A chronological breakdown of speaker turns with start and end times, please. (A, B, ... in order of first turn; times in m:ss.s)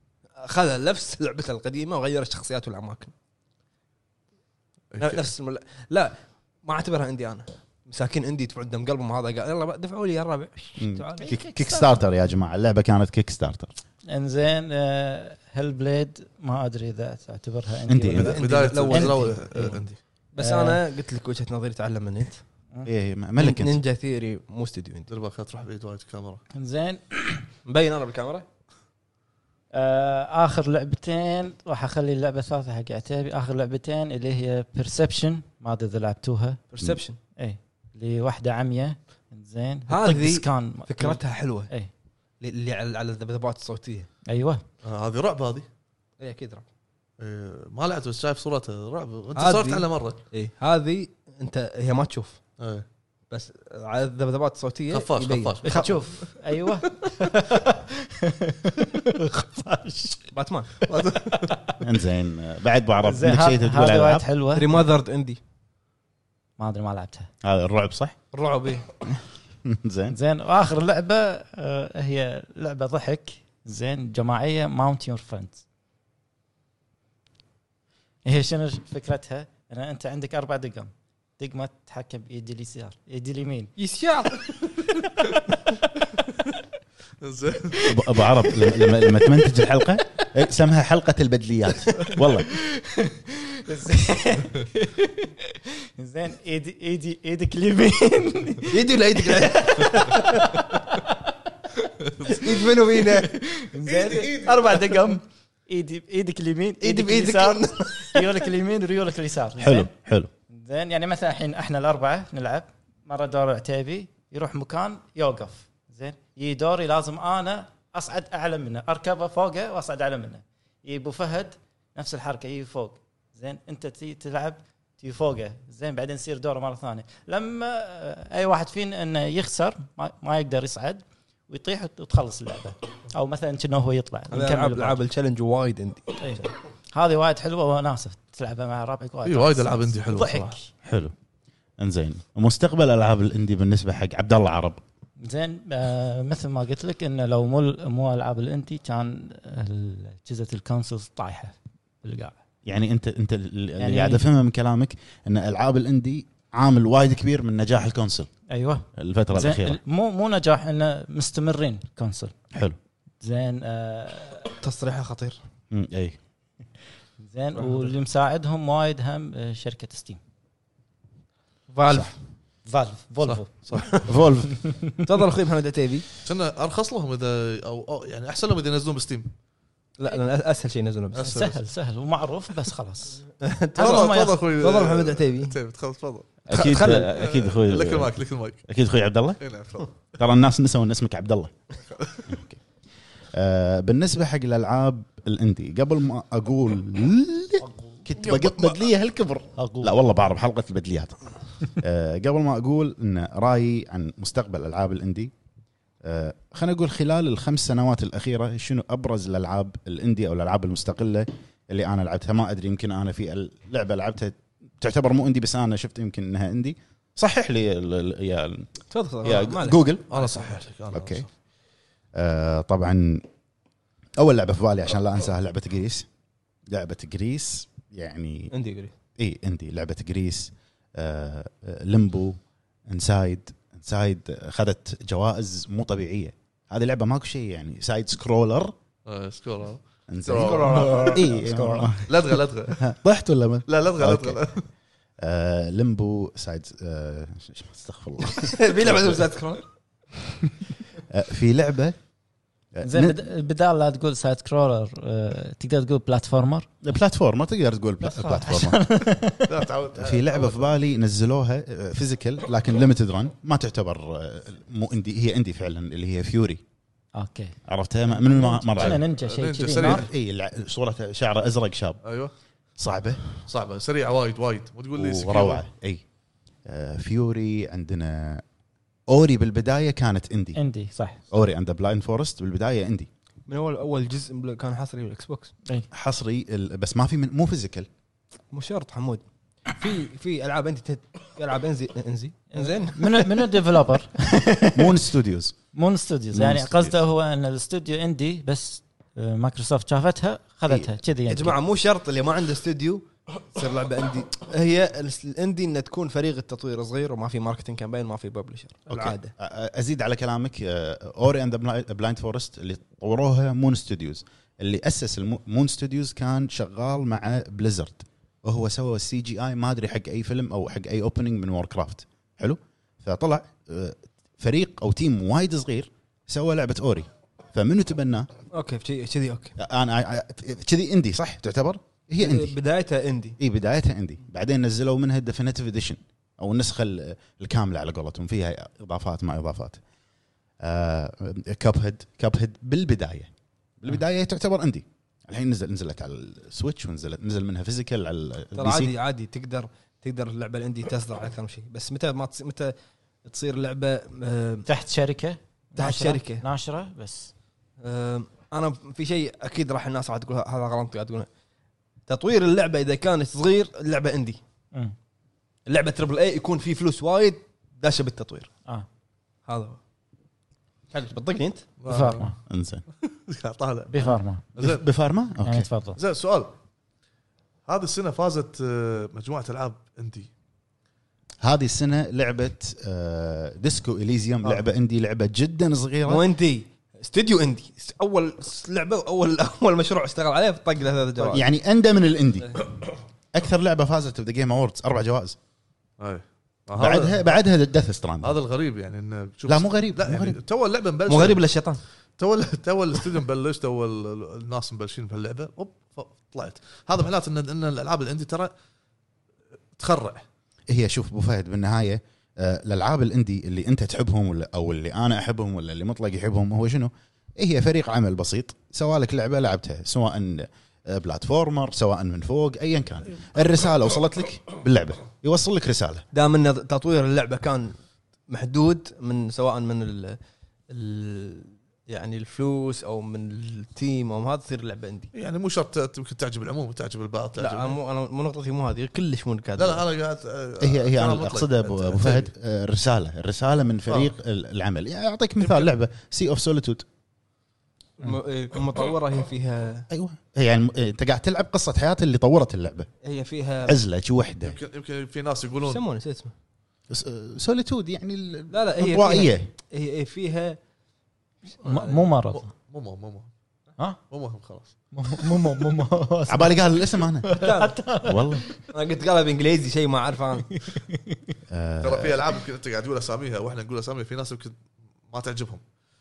0:00.4-0:03.1 A
0:04.9-0:05.3 B
0:05.0-0:11.4 A
0:10.8-0:13.7 C
0:11.2-0:11.9 D
0:14.1-0:19.6 D
0:17.9-0:18.4 C
0:18.1-0:22.4 A
0:18.2-0:20.0 B
0:20.4-0:20.8 D
0:22.8-0:23.8 C
0:23.4-0:25.1 A
0:25.1-0:26.4 B
0:26.5-0:27.5 D
0:27.6-0:28.4 A
0:29.7-0:36.6 D
0:36.7-0:37.2 A
0:37.4-0:41.9 D
0:39.9-0:41.7 A
0:42.4-0:44.1 A
0:44.2-0:44.6 D
0:44.8-0:45.7 B
0:46.2-0:46.6 A
0:47.2-0:50.2 B
0:49.4-0:52.4 A
0:52.6-0:52.8 B
0:53.3-0:55.9 A
0:54.9-0:56.1 B
0:55.6-1:00.3 D
1:00.3-1:00.9 A
1:00.9-1:01.6 B
1:01.3-1:01.7 D
1:01.8-1:04.2 C
1:03.0-1:04.8 D
1:04.5-1:05.4 A
1:06.6-1:07.3 D
1:07.4-1:08.2 C
1:08.3-1:08.8 A
1:09.0-1:10.2 C
1:10.1-1:15.6 D
1:18.2-1:23.7 D
1:23.8-1:24.4 A
1:24.3-1:25.8 D
1:27.2-1:28.0 B
1:27.8-1:32.6 C
1:32.7-1:41.4 D
1:38.7-1:40.4 A
1:42.2-1:49.9 D
1:42.2-1:43.3 A
1:43.8-1:44.9 B
1:46.8-1:48.3 A
1:49.6-1:50.3 C
1:50.5-2:15.0 D
2:14.3-2:16.4 A
2:16.2-2:20.7 D
2:19.2-2:20.5 B
2:20.8-2:21.1 C
2:21.8-2:24.8 C
2:25.2-2:32.4 D
2:32.6-2:38.3 C
2:33.8-2:34.2 D
2:38.5-2:42.3 D
2:39.0-2:39.8 C
2:42.5-2:42.8 C
2:43.2-2:44.5 D
2:44.6-2:45.4 A
2:45.7-2:46.2 C
2:47.2-2:50.2 D
2:47.6-2:47.9 A
2:51.7-2:52.1 A
2:52.7-2:53.5 D
2:53.2-2:54.0 B
2:54.0-2:54.6 C
2:54.5-2:54.9 D
2:55.0-2:56.1 A
2:56.2-2:59.3 B
3:00.0-3:01.3 A
3:01.1-3:01.6 B
3:01.2-3:04.4 D
3:03.4-3:05.6 A
3:03.8-3:08.6 B
3:06.5-3:08.1 C
3:06.5-3:07.1 A
3:08.7-3:09.4 C
3:09.4-3:09.9 B
3:10.2-3:11.5 C
3:11.9-3:12.2 B
3:12.3-3:12.6 C
3:13.3-3:21.2 C
3:17.6-3:18.0 D
3:18.2-3:18.8 B
3:19.6-3:19.9 D
3:21.7-3:25.3 C
3:26.0-3:38.7 C
3:38.9-3:39.8 A
3:39.2-3:40.3 C
3:40.1-3:41.3 B
3:40.9-3:41.2 C
3:42.1-3:43.2 C
3:44.2-3:46.1 C
3:46.7-3:48.5 C
3:48.5-3:48.9 A
3:49.2-3:58.7 C
3:59.0-4:01.0 B
4:00.1-4:04.4 C
4:00.4-4:02.0 A
4:00.7-4:01.2 D
4:02.1-4:02.9 B
4:03.7-4:04.6 B
4:05.2-4:09.3 C
4:08.4-4:09.6 A
4:11.1-4:12.0 C
4:12.7-4:13.2 C
4:12.8-4:16.7 D
4:16.8-4:18.8 C
4:18.0-4:19.6 D
4:19.5-4:20.7 B
4:20.0-4:26.6 C
4:27.1-4:27.6 D
4:27.7-4:29.0 C
4:28.1-4:30.0 D
4:28.8-4:30.1 B
4:29.8-4:32.0 C
4:32.0-4:32.3 B
4:32.8-4:33.2 C
4:33.4-4:35.6 B
4:34.9-4:36.0 C
4:36.6-4:38.4 C
4:39.1-4:40.6 C
4:40.5-4:41.2 D
4:41.3-4:43.1 C
4:43.5-4:45.5 A
4:45.9-4:47.9 C
4:48.5-4:53.3 A
4:52.5-4:55.0 D
4:54.7-4:55.6 C
4:55.7-5:01.5 D
4:56.3-4:57.0 C
5:01.3-5:09.3 A
5:08.9-5:28.3 C
5:28.5-5:29.6 A
5:29.6-5:32.6 C
5:32.2-5:33.4 A
5:33.4-5:39.8 C
5:40.6-5:48.9 C
5:48.5-5:52.7 A
5:53.2-5:54.6 A
5:54.6-5:57.3 D
5:55.8-5:56.4 A
5:57.8-6:01.3 A
6:02.1-6:04.4 A
6:05.7-6:08.5 A
6:09.5-6:09.8 A
6:10.9-6:11.7 A
6:11.8-6:12.3 B
6:11.9-6:12.4 D
6:12.5-6:12.8 C
6:13.0-6:14.8 B
6:13.9-6:14.4 D
6:14.6-6:15.7 C
6:15.4-6:16.0 D
6:16.0-6:16.5 B
6:17.7-6:20.3 B
6:21.4-6:26.2 C
6:26.0-6:31.5 A
6:31.2-6:32.7 C
6:33.3-6:35.4 C
6:36.0-6:37.3 B
6:36.8-6:38.4 C
6:38.2-6:41.4 B
6:39.5-6:40.4 C
6:41.1-6:41.8 A
6:42.2-6:48.5 B
6:49.8-6:50.2 B
6:50.7-7:06.0 C
7:06.1-7:07.8 A
7:08.3-7:10.2 A
7:10.7-7:15.1 A
7:15.1-7:17.8 B
7:17.4-7:19.8 A
7:19.6-7:22.3 B
7:20.6-7:26.8 C
7:25.4-7:25.7 B
7:28.0-7:29.9 A
7:29.9-7:32.9 C
7:33.0-7:33.8 A
7:33.6-7:34.6 C
7:34.4-7:35.8 B
7:35.6-7:36.3 A
7:36.9-7:39.5 C
7:38.5-7:40.6 A
7:41.6-7:42.0 A
7:41.6-7:42.4 D
7:42.3-7:43.3 B
7:44.1-7:44.7 B
7:44.9-7:48.5 D
7:46.3-7:47.3 C
7:47.3-7:47.7 A
7:48.0-7:48.5 C
7:48.7-7:50.6 A
7:50.6-7:51.2 D
7:51.5-7:52.2 C
7:51.8-7:54.5 B
7:55.1-7:55.6 B